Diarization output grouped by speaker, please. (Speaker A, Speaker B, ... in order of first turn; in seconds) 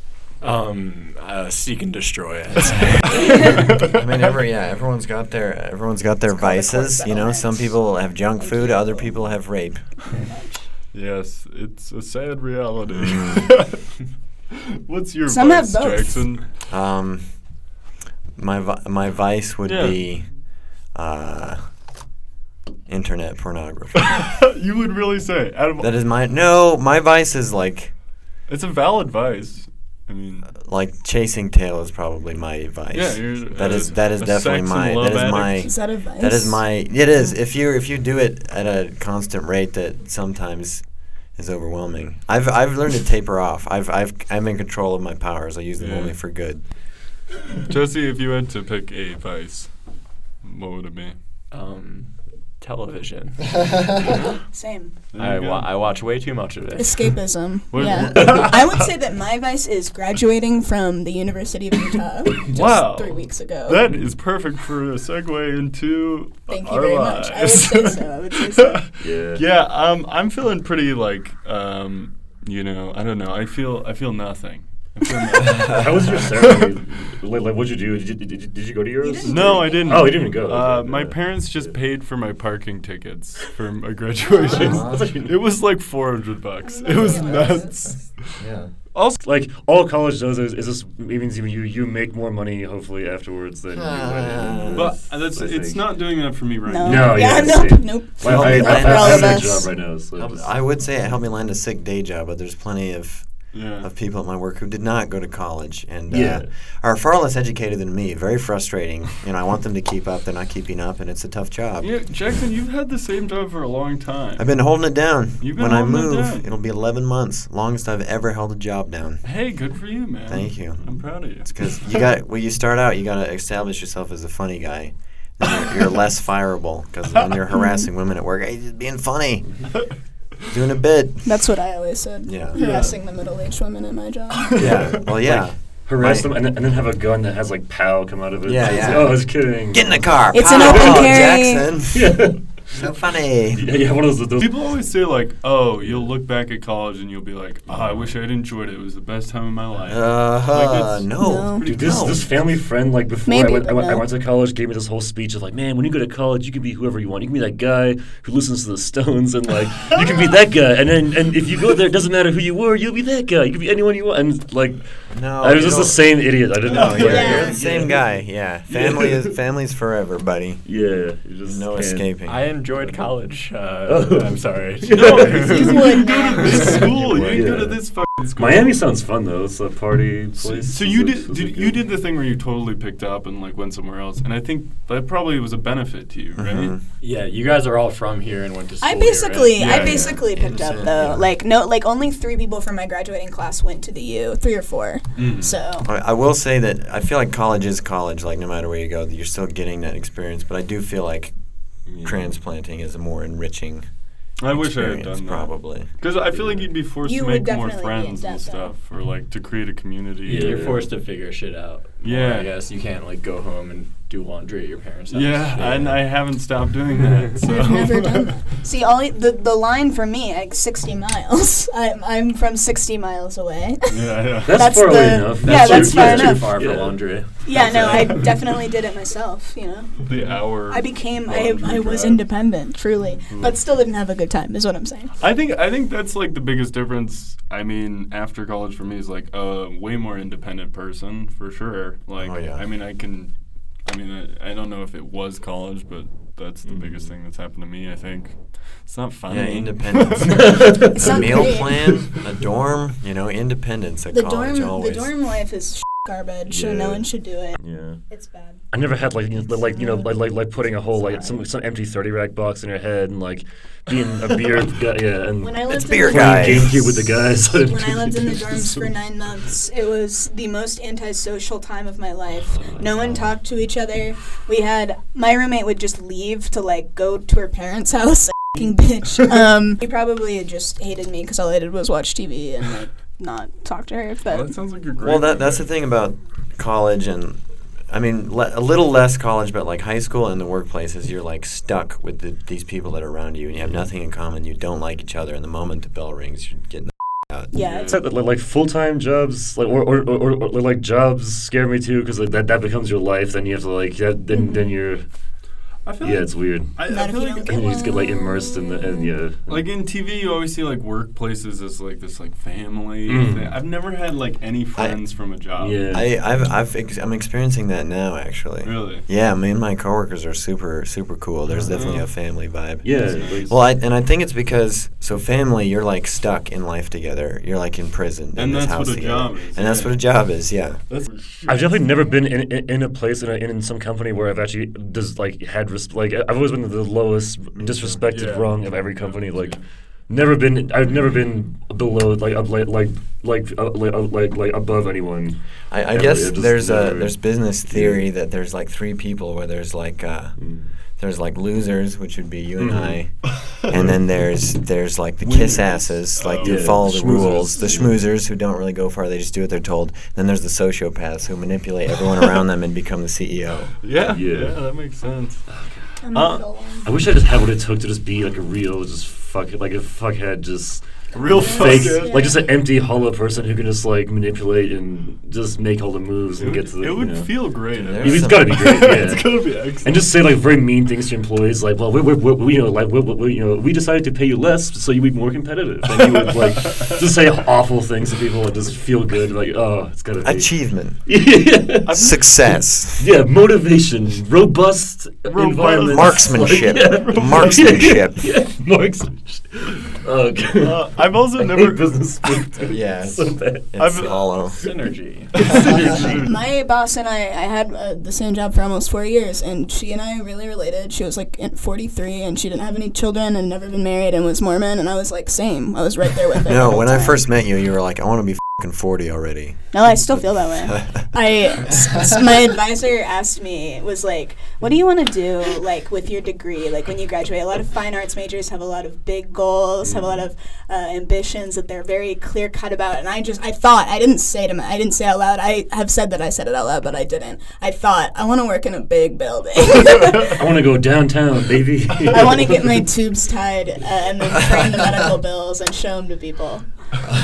Speaker A: 0.4-3.5, 51.5-53.6, 55.2-57.4, 172.3-176.6, 187.0-189.8, 210.3-216.3, 225.4-228.2, 404.4-405.3
Speaker B: 3.9-10.1, 13.0-13.7, 16.7-17.8, 18.4-21.9, 22.9-24.1, 25.8-27.9, 30.6-46.7, 57.9-58.2, 84.5-85.2, 87.1-88.7, 93.7-95.0, 98.2-112.0, 114.4-129.9, 130.4-131.5, 132.3-132.6, 134.6-136.3, 138.5-143.7, 149.9-152.3, 165.1-170.8, 171.4-172.4, 176.7-177.7, 186.4-186.8, 189.7-191.3, 195.8-206.6, 242.2-242.6, 249.3-255.1, 265.7-267.0, 285.0-297.5, 314.8-315.2, 315.9-330.9, 337.6-338.0, 345.7-363.8, 377.7-378.8, 390.2-393.1, 395.8-398.3, 402.6-404.6, 416.5-421.1
Speaker C: 6.3-10.7, 15.3-16.3, 35.6-36.7, 54.5-55.0, 56.8-63.8, 66.5-68.8, 79.0-80.2, 86.6-87.9, 96.7-99.7, 127.5-127.9, 131.2-134.7, 140.3-141.7, 151.2-151.7, 153.3-154.1, 167.0-167.5, 175.5-176.8, 188.8-195.9, 207.0-208.7, 217.4-226.6, 227.4-235.1, 250.9-252.0, 254.1-258.6, 259.7-261.4, 265.4-266.7, 267.6-284.5, 297.5-297.9, 304.3-304.7, 306.9-309.1, 366.0-366.9, 371.4-372.4, 406.2-417.2, 419.7-440.4, 442.1-446.7
Speaker D: 10.9-13.9, 14.8-16.5, 19.6-20.4, 24.1-25.9, 28.5-30.5, 32.9-35.7, 45.8-46.2, 47.7-51.1, 55.1-55.9, 57.7-58.8, 62.5-68.0, 68.6-76.3, 79.3-88.2, 88.9-89.2, 94.7-97.6, 103.5-103.9, 111.8-116.5, 119.2-121.7, 132.6-132.9, 134.5-134.8, 144.4-151.1, 151.6-152.3, 174.9-178.8, 180.4-186.8, 189.6-190.2, 195.2-195.6, 204.4-210.7, 212.0-212.5, 215.1-218.4, 223.9-225.1, 230.0-232.3, 233.3-233.6, 235.2-250.6, 284.3-285.7, 297.6-297.9, 305.8-307.9, 309.5-315.9, 318.6-319.1, 321.5-322.1, 322.9-323.4, 328.4-330.2, 330.9-332.0, 338.1-339.6, 355.2-357.3, 363.8-365.6, 366.1-366.5, 371.1-372.3, 376.4-380.0, 385.9-386.9, 391.9-392.1, 395.3-397.9, 400.6-402.5, 403.8-404.7, 405.3-406.3
Speaker E: 69.0-69.4, 75.6-81.8, 84.5-85.4, 89.2-100.5, 106.1-106.5, 135.2-141.2, 141.9-142.8, 143.5-144.5, 147.7-148.1, 151.6-168.1, 168.7-169.2, 170.6-172.1, 172.8-175.4, 177.1-181.8, 201.9-202.3, 210.3-210.9, 224.4-228.3, 246.7-247.1, 250.2-251.9, 256.5-258.1, 258.7-268.9, 272.5-273.3, 297.8-305.1, 306.0-306.8, 307.5-309.6, 313.1-313.5, 315.6-316.1, 322.8-323.6, 331.4-348.1, 350.4-350.7, 352.6-353.0, 356.4-358.0, 364.1-364.6, 366.8-390.5, 391.1-391.9, 393.0-403.7, 405.5-406.2, 429.8-430.2, 440.4-442.8